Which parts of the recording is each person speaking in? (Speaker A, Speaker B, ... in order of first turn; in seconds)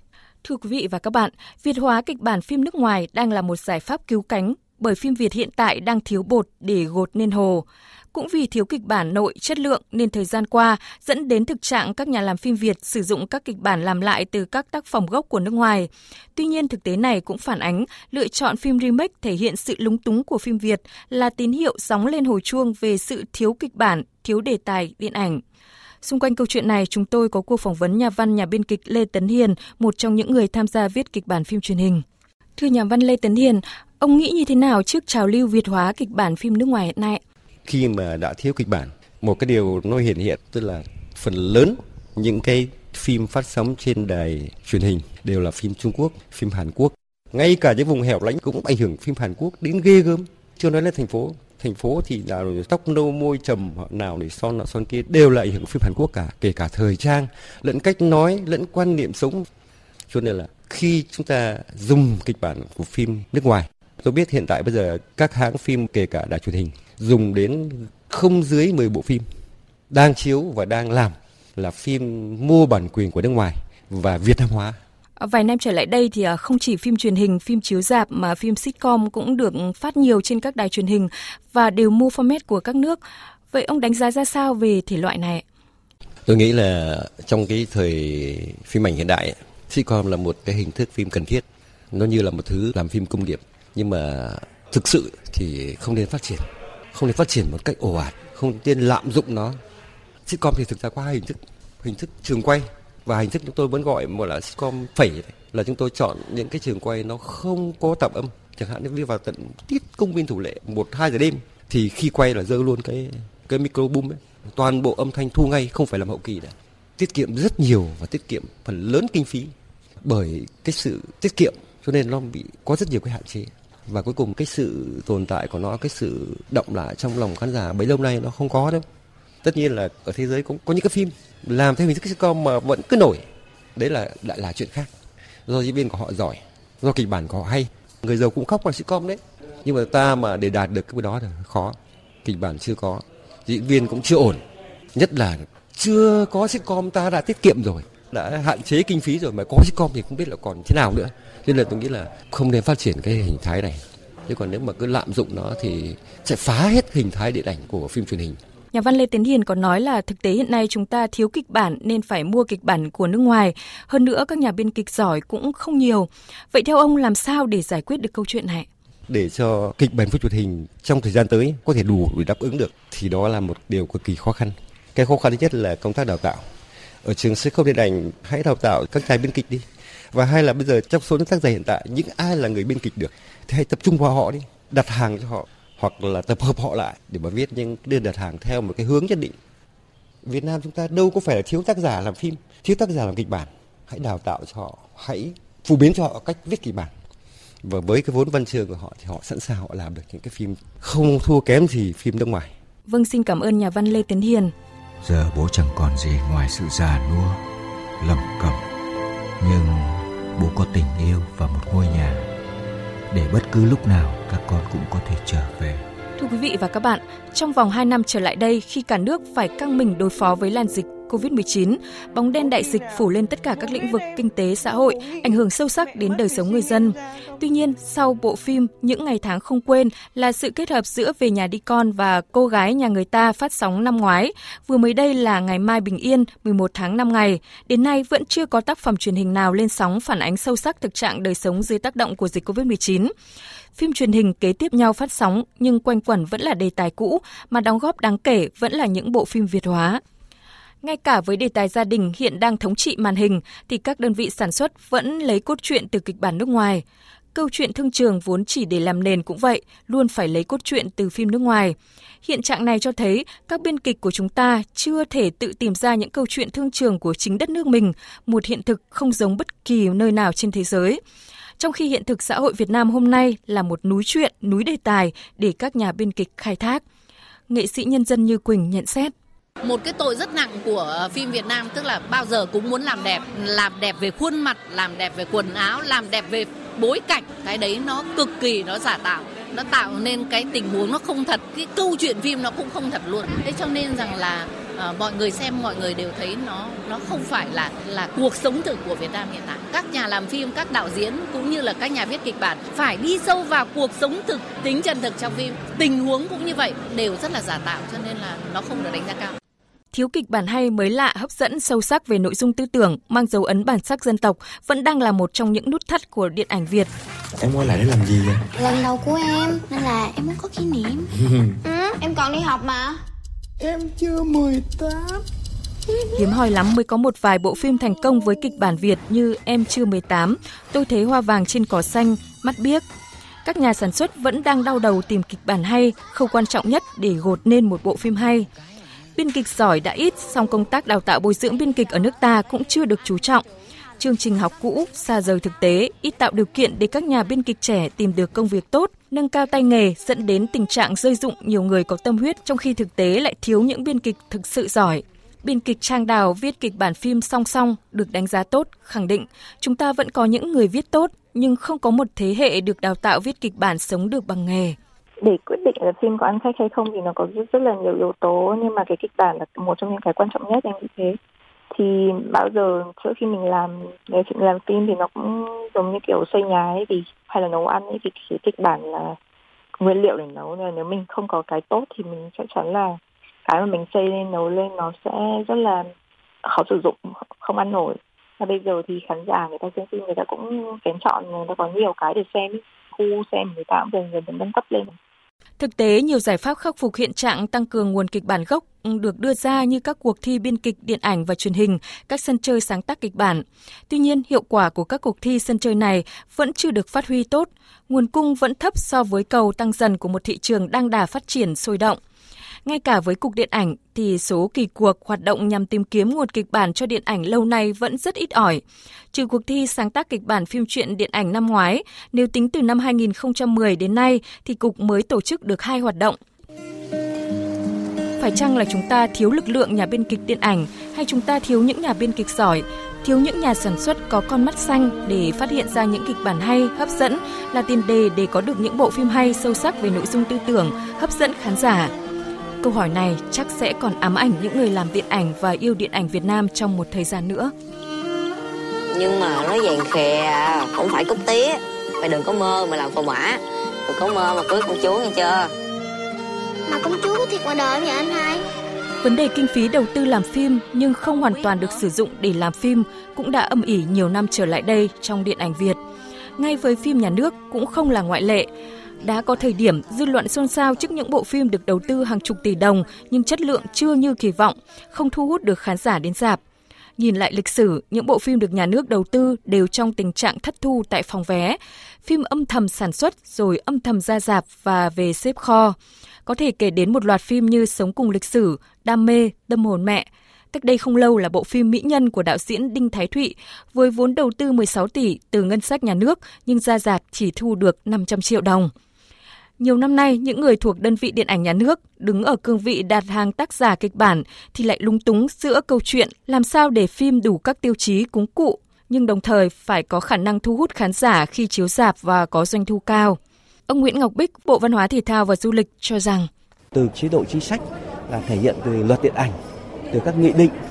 Speaker A: 0.4-25.4, 26.0-32.0, 32.6-37.2, 75.2-83.0, 83.5-85.4, 158.7-168.7, 202.9-204.5, 216.2-243.1, 243.8-250.0, 250.8-256.8, 257.3-271.0, 271.6-276.8, 277.5-279.1, 309.9-316.9, 326.2-332.8, 333.4-338.5, 339.2-343.4, 344.0-364.8, 395.6-412.0, 412.7-418.6, 419.1-426.2, 428.2-441.9, 442.6-447.5, 459.0-465.8, 466.4-468.5, 469.0-476.4, 477.0-498.7, 499.6-516.3
Speaker B: 37.6-59.5, 60.1-69.2, 69.9-74.8, 86.2-99.6, 100.2-119.5, 120.0-128.8, 129.4-134.9, 135.5-144.4, 144.9-158.4, 169.1-176.5, 177.0-189.4, 190.2-196.9, 197.6-202.5
Speaker C: 205.0-207.4, 208.0-208.6, 209.4-212.3, 213.1-215.8
Speaker D: 279.6-309.3
Speaker E: 317.7-318.3, 323.6-325.0
Speaker F: 318.6-321.1, 321.6-323.0, 456.7-458.4
Speaker G: 365.2-371.2, 371.7-379.2, 379.8-385.9, 386.4-395.0
Speaker H: 448.9-455.5
Speaker I: 516.7-519.4, 519.9-520.5